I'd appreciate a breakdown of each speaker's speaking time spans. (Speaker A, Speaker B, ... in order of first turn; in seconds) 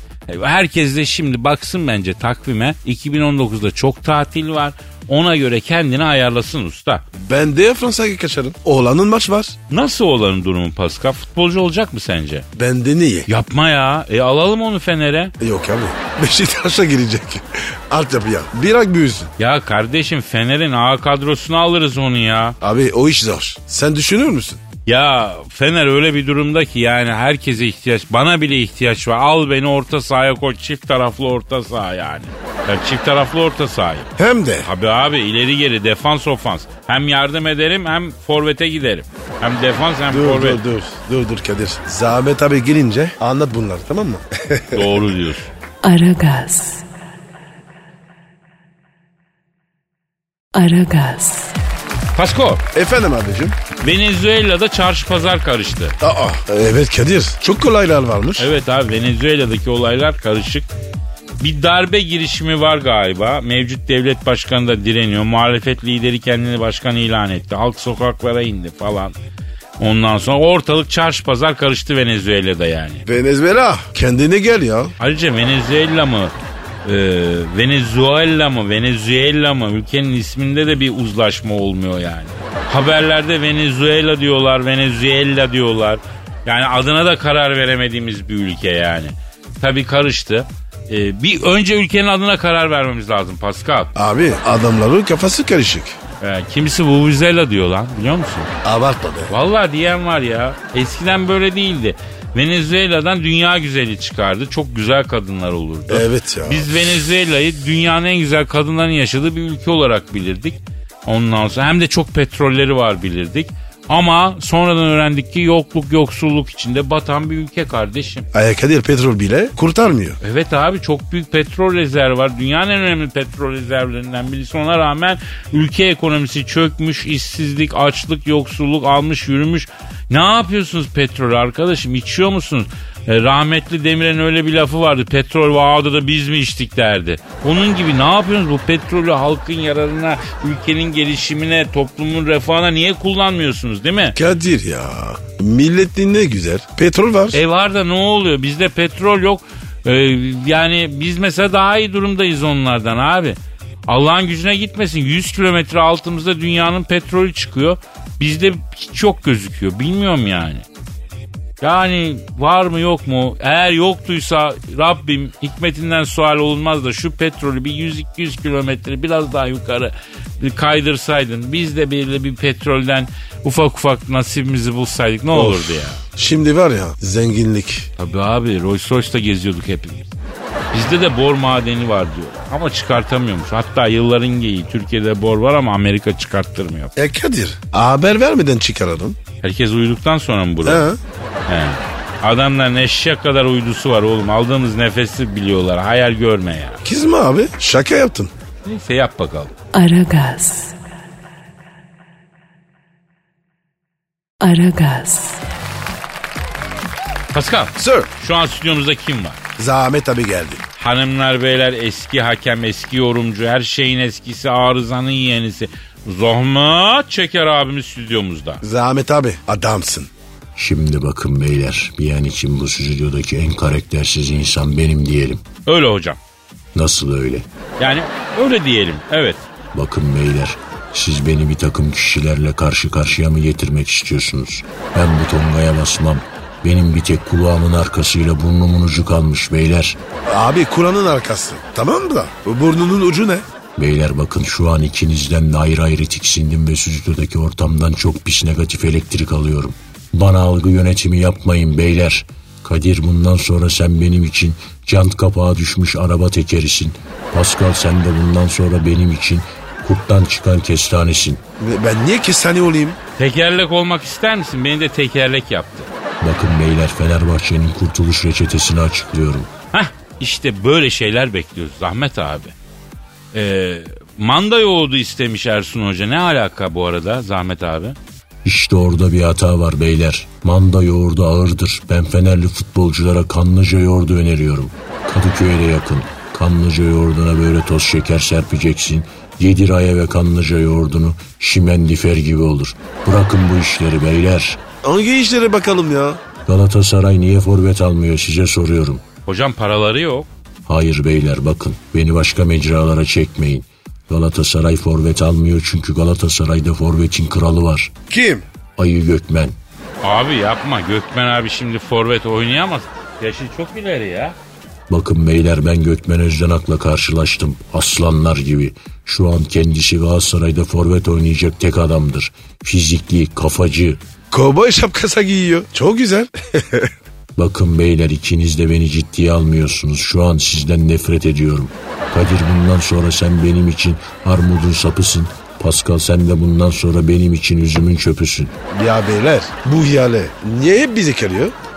Speaker A: 0.3-7.0, 9.7-12.4, 13.3-15.3, 19.4-22.6, 24.9-34.1, 34.6-40.6, 44.7-45.5, 52.1-52.6, 53.8-56.0, 58.4-60.7, 61.4-69.2, 69.8-73.0, 75.0-76.3, 76.8-93.9, 96.2-98.5, 99.3-118.3, 120.2-144.2, 147.3-160.6, 161.6-176.0, 178.0-180.1, 180.7-186.9, 189.4-190.8, 191.5-196.8, 198.6-199.5, 207.3-209.4, 210.8-218.6, 225.7-226.2, 227.8-229.4, 263.2-265.9, 269.7-272.5, 273.3-277.9, 299.2-300.3, 310.0-314.4
Speaker B: 7.2-9.6, 12.6-13.3, 15.4-19.3, 22.6-24.6, 34.2-34.7, 40.1-45.1, 52.7-53.6, 56.0-58.5, 73.0-74.9, 93.9-96.0, 98.6-99.3, 105.9-107.0, 118.3-120.2, 144.1-147.4, 175.3-177.9, 186.9-189.2, 190.6-191.0, 196.8-198.3, 207.8-208.1, 209.6-210.6, 218.6-220.1, 240.2-243.4, 261.6-263.0, 294.8-296.2, 308.1-308.4, 324.3-326.9, 338.7-341.5
Speaker C: 45.8-46.9, 50.5-51.5, 199.7-200.8, 204.4-205.4
Speaker D: 220.6-225.4, 226.7-227.4, 229.7-240.0, 243.8-261.4, 266.2-269.5, 278.4-294.6, 296.4-299.0, 300.6-307.9, 308.8-309.6, 314.9-324.0, 327.4-338.5